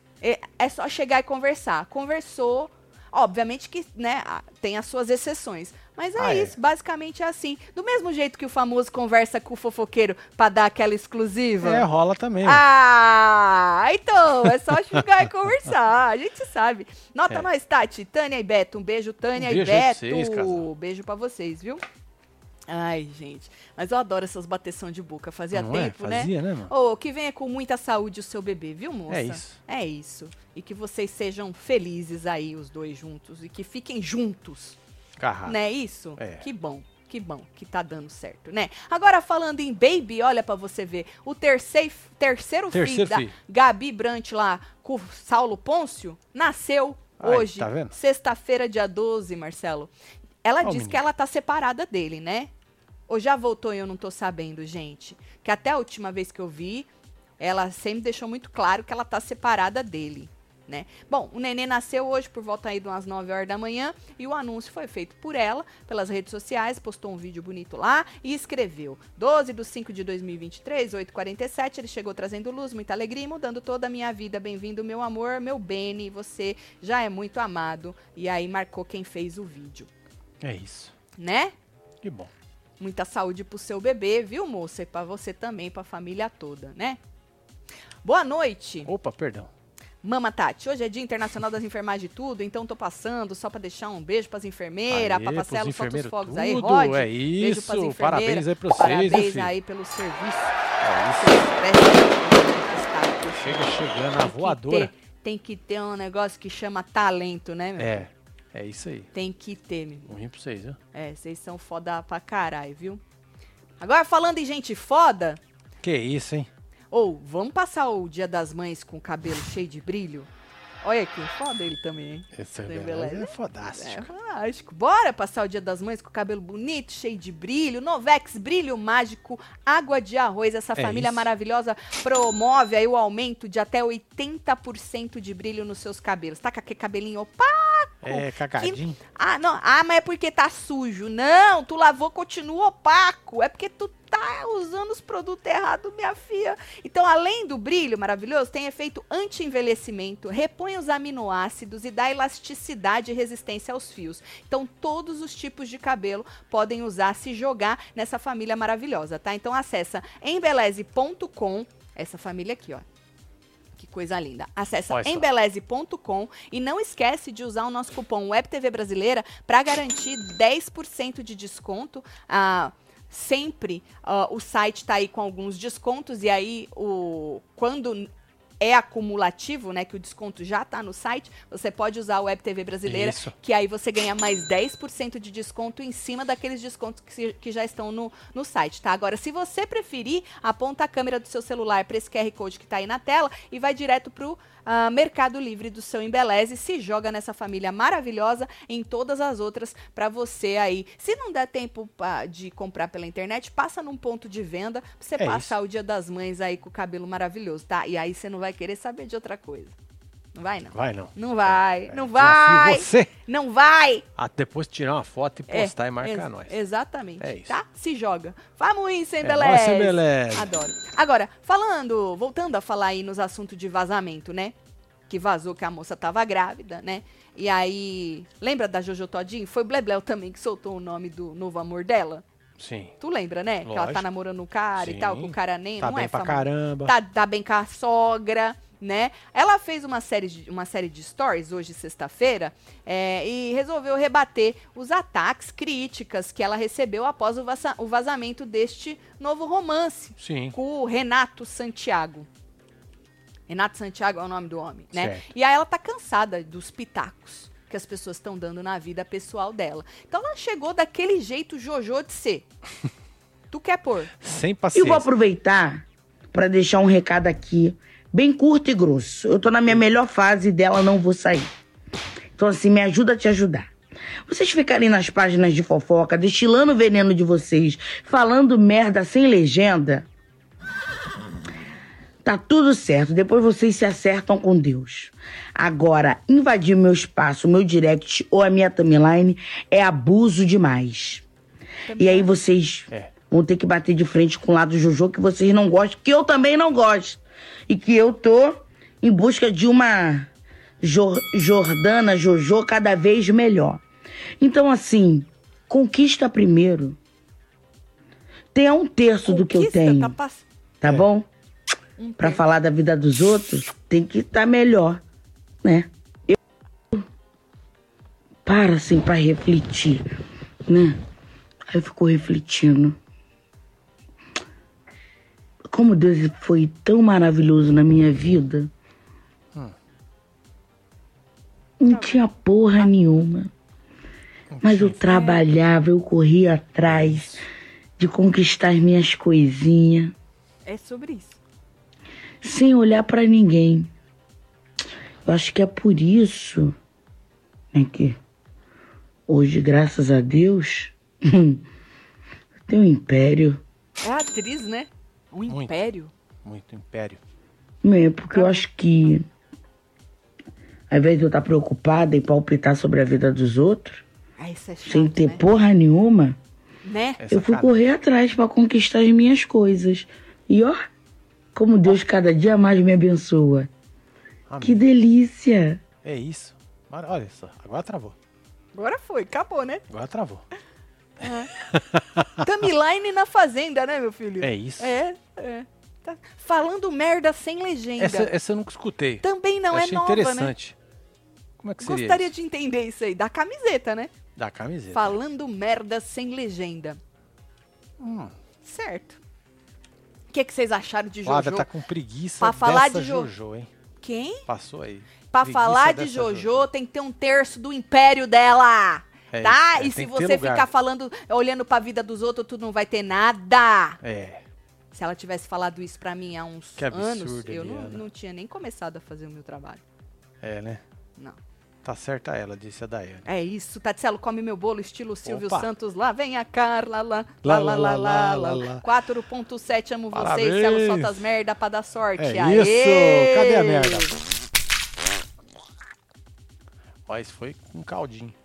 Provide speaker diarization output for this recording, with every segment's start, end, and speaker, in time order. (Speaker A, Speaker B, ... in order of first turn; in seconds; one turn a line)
Speaker A: 0.2-11.8
Speaker B: 6.2-6.5
Speaker B: 11.6-12.6
Speaker A: 12.4-21.8
Speaker B: 19.4-20.7
Speaker A: 22.7-34.8
Speaker B: 25.5-26.7
Speaker B: 29.1-29.6
Speaker B: 35.2-35.6
Speaker A: 35.5-49.9
Speaker B: 36.2-36.4
Speaker B: 42.7-43.3
Speaker B: 47.2-47.9
Speaker A: 50.4-52.5
Speaker B: 50.6-51.0
Speaker A: 53.1-79.9
Speaker B: 80.4-80.9
Speaker A: 81.2-81.5
Speaker B: 82.0-82.3
Speaker A: 82.8-87.0
Speaker A: 88.0-88.9
Speaker B: 88.8-89.5
Speaker A: 90.0-100.6
Speaker B: 94.9-99.5
Speaker B: 100.8-101.5
Speaker A: 101.1-103.6
Speaker B: 103.4-104.9
Speaker A: 104.2-108.1
Speaker B: 107.8-109.1
Speaker A: 109.1-110.2
Speaker B: 110.1-110.8
Speaker A: 110.9-113.0
Speaker A: 113.8-115.4
Speaker B: 115.8-116.5
Speaker A: 116.9-120.3
Speaker A: 120.8-162.8
Speaker B: 122.3-124.1
Speaker B: 130.8-131.2
Speaker B: 138.0-139.0
Speaker A: 163.8-178.1
Speaker B: 164.9-165.2
Speaker A: 178.6-209.7
Speaker B: 182.8-183.3
Speaker B: 205.2-205.5
Speaker A: 210.3-214.0
Speaker B: 210.7-213.1
Speaker B: 214.2-216.6
Speaker A: 215.5-224.5
Speaker B: 217.2-217.5
Speaker B: 219.2-220.5
Speaker A: 225.1-232.2
Speaker B: 232.6-232.9
Speaker A: 233.0-252.3
Speaker B: 233.6-234.1
Speaker B: 234.8-236.9
Speaker B: 250.2-250.6
Speaker A: 253.5-262.5
Speaker B: 254.9-255.3
Speaker A: 263.5-264.1
Speaker B: 264.2-265.1
Speaker C: 264.7-271.5
Speaker C: 272.4-273.7
Speaker C: 274.2-280.1
Speaker C: 282.2-291.2
Speaker A: 291.8-292.3
Speaker C: 292.0-300.3
Speaker C: 300.8-303.8
Speaker C: 304.4-307.0
Speaker C: 308.5-310.1
Speaker A: 309.2-310.4
Speaker C: 310.8-311.3
Speaker A: 312.0-312.4
Speaker C: 312.2-315.0
Speaker C: 315.6-316.4
Speaker C: 318.4-320.1
Speaker C: 320.7-321.0
Speaker C: 321.7-323.0
Speaker C: 325.7-328.7
Speaker C: 331.8-333.5
Speaker A: 331.9-332.2
Speaker B: 334.5-335.1
Speaker C: 334.6-337.4
Speaker A: 335.1-335.4
Speaker B: 336.9-337.4
Speaker C: 338.0-340.1
Speaker A: 340.6-341.4
Speaker C: 342.4-343.9
Speaker C: 345.2-346.7
Speaker C: 347.7-348.2
Speaker C: 349.3-351.6
Speaker C: 352.7-353.6
Speaker A: 354.0-356.1
Speaker B: 355.5-355.7
Speaker B: 356.4-357.2
Speaker C: 357.8-359.2
Speaker A: 358.3-359.1
Speaker C: 360.9-364.0
Speaker A: 364.4-365.4
Speaker C: 364.9-366.4
Speaker A: 366.8-367.2
Speaker B: 367.2-367.8
Speaker C: 367.3-370.8
Speaker C: 371.5-373.7
Speaker B: 374.5-374.8
Speaker C: 374.6-375.8
Speaker B: 376.0-378.1
Speaker A: 378.7-379.8
Speaker B: 379.9-380.4
Speaker A: 381.2-381.5
Speaker B: 381.6-382.5
Speaker A: 382.4-388.3
Speaker B: 384.4-384.9
Speaker B: 388.0-390.8
Speaker A: 389.2-390.5
Speaker B: 391.6-392.3
Speaker A: 391.8-394.1
Speaker B: 394.4-395.1
Speaker A: 394.9-397.0
Speaker B: 398.0-398.3
Speaker A: 398.6-399.2
Speaker A: 400.3-401.7
Speaker B: 401.2-403.7
Speaker A: 402.4-403.3
Speaker A: 404.0-404.4
Speaker B: 404.5-406.7
Speaker A: 405.3-414.0
Speaker B: 409.3-410.7
Speaker B: 414.0-414.4
Speaker A: 414.9-419.8
Speaker B: 416.8-418.0
Speaker B: 420.4-420.8
Speaker B: 421.8-423.2
Speaker A: 423.2-434.1
Speaker B: 425.2-425.7
Speaker B: 427.4-428.8
Speaker B: 430.1-431.2
Speaker B: 432.2-434.2
Speaker B: 437.1-438.3